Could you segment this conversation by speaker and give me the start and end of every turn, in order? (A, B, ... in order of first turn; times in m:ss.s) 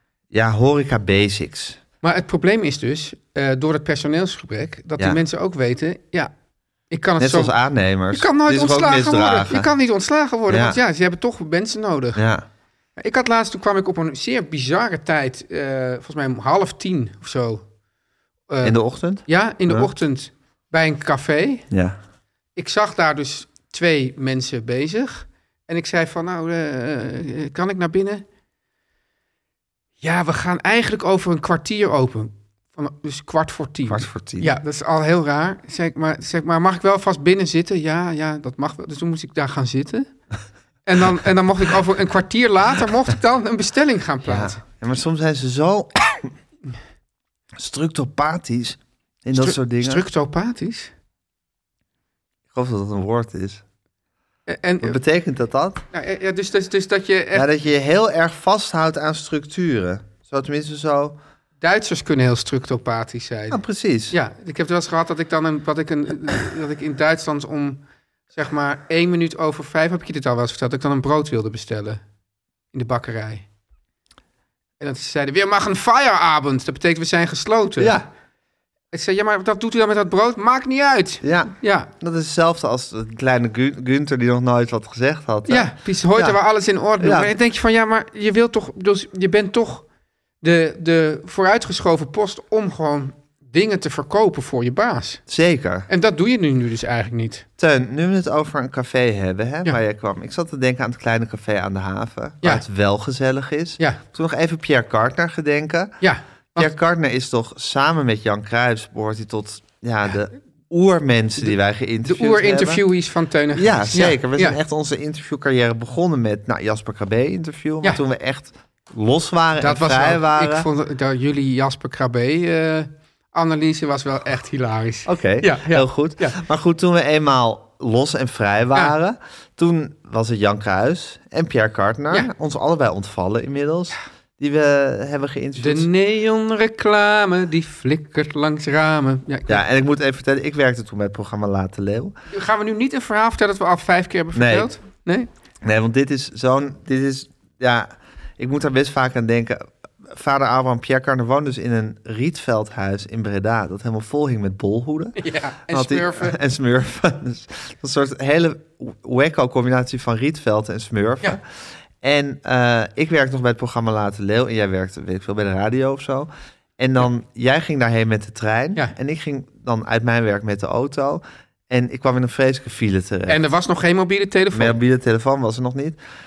0:00.3-0:01.8 A
0:02.0-0:06.3 B
0:06.9-0:07.5 B
0:07.2-0:09.7 A
0:08.1-0:12.2 B
0:10.5-0:10.8 A
0:12.1-0:12.4 A
0:13.0-0:17.6 B
0:18.5-0:21.7 B
0:18.6-0:19.9 A
0:21.7-0:22.0 A
0:22.6-0:28.2 B
0:30.0-0:40.1 B
0:33.9-0:34.6 A
0:40.8-0:44.6 B
0:44.2-0:46.3 A
0:47.6-0:50.0 A
0:49.3-0:50.9 B
0:52.5-0:53.6 A
0:54.5-0:55.0 B
0:54.8-0:55.8 A
0:55.9-0:57.5 B
0:57.3-1:01.2 A
1:01.6-1:07.8 B
1:03.5-1:04.2 A
1:08.3-1:12.0 B
1:12.7-1:13.4 B
1:14.8-1:18.0 B
1:17.8-1:18.1 A
1:18.9-1:21.9 B
1:21.2-1:26.4 A
1:25.4-1:29.8 B
1:27.0-1:27.3 A
1:30.4-1:35.2 B
1:35.3-1:35.9 A
1:35.9-1:37.4 B
1:37.6-1:45.9 A
1:46.0-1:46.7 B
1:46.6-1:52.8 A
1:52.0-1:54.6 B
1:53.5-2:00.7 A
1:59.6-2:06.4 B
2:05.0-2:15.9 A
2:15.6-2:19.6 B
2:19.5-2:22.1 A
2:22.3-2:25.3 B
2:24.3-2:24.7 A
2:25.6-2:41.4 A
2:35.2-2:36.4 B
2:42.0-2:53.4 A
2:53.3-2:54.8 B
2:54.5-2:56.0 A